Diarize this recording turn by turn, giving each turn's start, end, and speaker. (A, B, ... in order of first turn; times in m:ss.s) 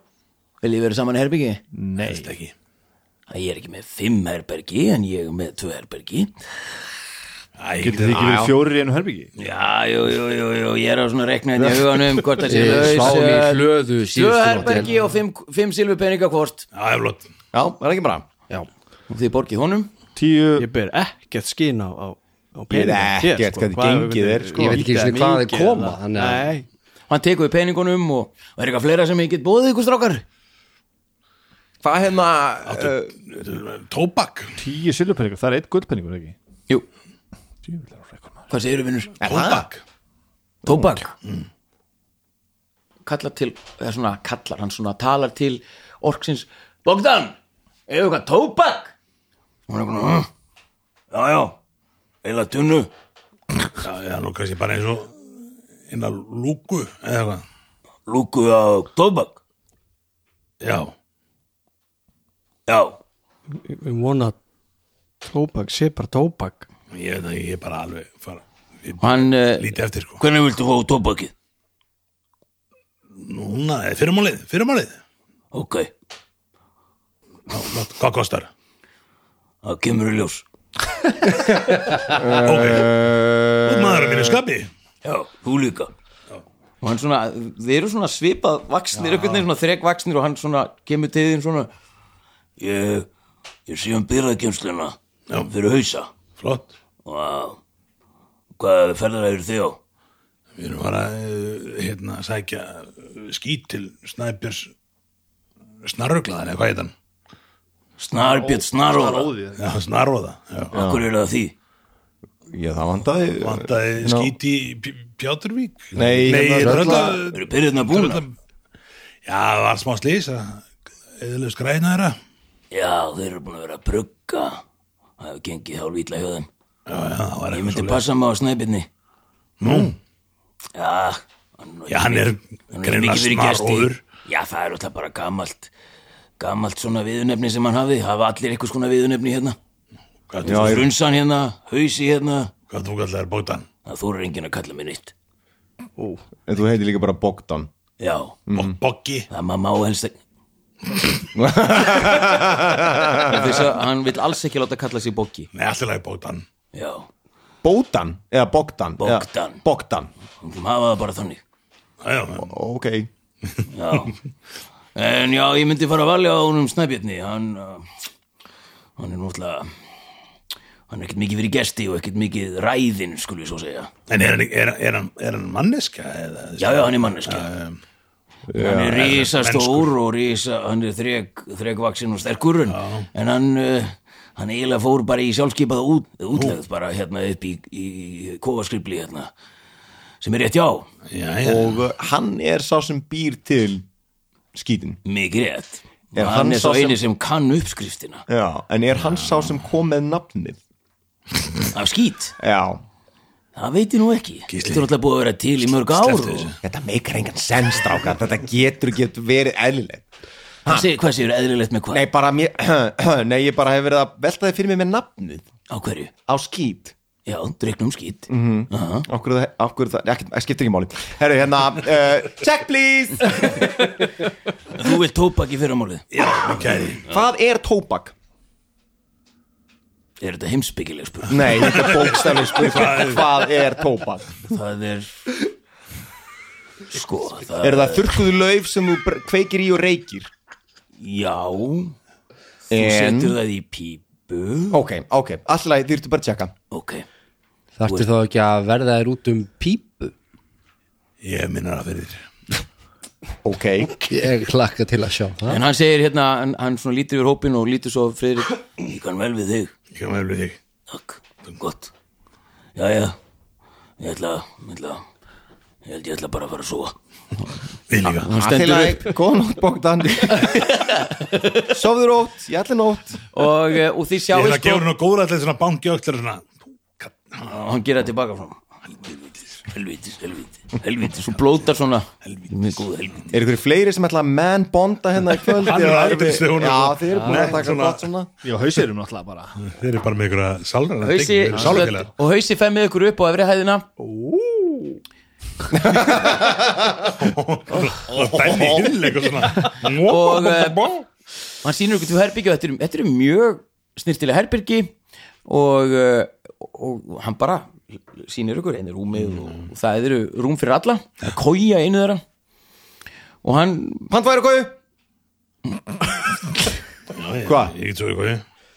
0:00.6-0:01.6 A
0:01.7-0:02.3 B
0:02.0-0:02.5 C
0:03.3-0:06.3 A
0:07.6-0:08.2 C
0:07.8-0:09.3 B
0:08.1-0:08.6 D
0:09.4-0:16.6 A
0:12.4-0:14.9 E
0:16.7-0:17.2 C
0:17.5-0:18.2 D
0:19.1-0:19.9 A
0:20.1-0:20.7 B
0:20.6-0:26.6 F
0:22.7-0:25.1 D
0:24.6-0:26.5 E
0:27.1-0:30.2 A
0:31.8-0:33.2 D
0:32.7-0:34.5 C
0:34.6-0:36.3 B
0:37.6-0:38.4 B
0:38.5-0:39.2 A
0:39.2-0:39.7 D
0:39.2-0:39.8 C
0:40.6-0:41.1 A
0:43.0-0:47.4 A
0:47.9-0:48.9 A
0:49.7-0:50.3 A
0:51.1-0:51.6 A
0:52.2-0:52.9 A
0:53.8-0:55.2 C
0:55.9-0:57.4 C
0:58.1-0:59.4 A
1:00.6-1:00.9 C
1:02.7-1:03.0 A
1:03.5-1:04.4 F
1:05.2-1:06.7 F
1:06.9-1:10.2 C
1:09.0-1:11.3 A
1:13.2-1:15.0 C
1:15.5-1:15.9 A
1:17.5-1:18.5 C
1:19.6-1:20.4 A
1:22.0-1:24.4 D
1:22.4-1:22.9 C
1:23.6-1:24.7 C
1:25.0-1:25.9 A
1:26.8-1:31.7 A
1:32.6-1:33.1 A
1:33.7-1:36.1 A
1:36.4-1:36.7 C
1:37.0-1:37.6 A
1:38.6-1:39.8 A
1:40.6-1:44.7 C
1:45.8-1:46.9 C
1:48.0-1:49.3 A
1:48.2-1:49.6 B
1:49.6-1:50.8 C
1:50.7-1:51.5 A
1:50.7-1:51.0 D
1:52.5-1:54.3 D
1:53.4-1:58.3 C
1:55.9-1:57.2 D
1:56.6-1:57.2 E
1:57.2-1:58.2 A
1:59.2-2:02.2 C
2:02.7-2:04.6 A
2:05.2-2:06.5 A
2:06.9-2:08.0 C
2:07.5-2:08.9 A
2:09.6-2:10.0 C
2:10.7-2:15.7 A
2:11.9-2:14.0 C
2:16.4-2:19.6 A
2:20.3-2:20.8 C
2:20.4-2:22.5 A
2:20.4-2:20.9 D
2:22.7-2:23.7 C
2:23.8-2:25.1 A
2:26.0-2:26.2 F
2:26.4-2:27.7 D
2:28.0-2:28.4 A
2:28.5-2:28.8 D
2:28.5-2:29.2 C
2:29.3-2:30.2 A
2:31.3-2:33.6 D
2:33.2-2:35.5 A
2:35.5-2:36.4 C
2:36.7-2:37.1 A
2:37.6-2:40.1 D
2:39.0-2:39.6 A
2:40.4-2:41.4 A
2:42.0-2:42.5 C
2:42.4-2:43.1 D
2:43.7-2:44.2 A
2:44.9-2:47.9 A
2:49.0-2:49.7 A
2:50.9-2:53.9 A
2:54.1-2:57.8 C
2:56.6-2:57.5 A
2:58.5-2:59.2 D
2:58.5-3:09.3 A
2:59.0-2:59.9 C
3:02.7-3:03.1 C
3:10.2-3:10.9 A
3:11.1-3:11.8 C
3:11.4-3:13.8 D
3:14.5-3:15.0 D
3:15.0-3:18.2 A
3:16.1-3:17.0 D
3:18.3-3:20.6 D
3:21.7-3:22.3 A
3:22.4-3:22.8 D
3:23.5-3:26.5 A
3:24.5-3:24.9 C
3:25.7-3:26.6 C
3:26.6-3:30.0 D
3:30.7-3:32.0 A
3:31.9-3:35.4 D
3:35.7-3:36.1 A
3:36.3-3:36.9 D
3:37.2-3:39.1 A
3:38.3-3:43.7 D
3:44.7-3:46.6 A
3:46.1-3:47.0 C
3:47.0-3:48.1 D
3:50.2-3:52.6 A
3:51.3-3:54.2 D
3:51.7-3:53.2 C
3:54.5-3:55.4 A
3:56.9-3:58.2 A
3:57.6-4:00.3 D
4:01.0-4:01.9 A
4:02.7-4:03.4 D
4:02.7-4:04.8 A
4:04.7-4:06.5 D
4:06.7-4:07.0 A
4:07.8-4:10.1 E
4:07.8-4:08.1 A
4:11.2-4:12.2 C
4:13.4-4:14.0 D
4:14.0-4:15.6 E
4:15.5-4:19.7 A
4:19.9-4:20.6 C
4:20.9-4:21.9 A
4:22.7-4:23.2 A
4:24.0-4:25.0 A
4:25.8-4:26.9 A
4:27.9-4:28.3 C
4:28.0-4:29.1 A
4:28.3-4:30.6 D
4:30.5-4:31.7 A
4:31.6-4:33.2 D
4:33.3-4:34.9 A
4:34.3-4:37.2 C
4:37.4-4:38.6 A
4:39.7-4:43.3 A
4:43.3-4:48.3 D
4:45.4-4:48.0 C
4:48.4-4:49.5 B
4:49.6-4:52.1 C
4:51.0-4:53.9 A
4:51.5-4:51.8 B
4:54.2-4:54.8 F
4:55.7-4:57.0 D
4:57.2-5:01.0 C
4:59.9-5:00.9 A
5:01.6-5:04.9 A
5:05.4-5:12.2 A
5:09.2-5:09.6 C
5:13.4-5:14.1 A
5:14.1-5:14.8 D
5:17.1-5:18.4 C
5:17.4-5:17.7 D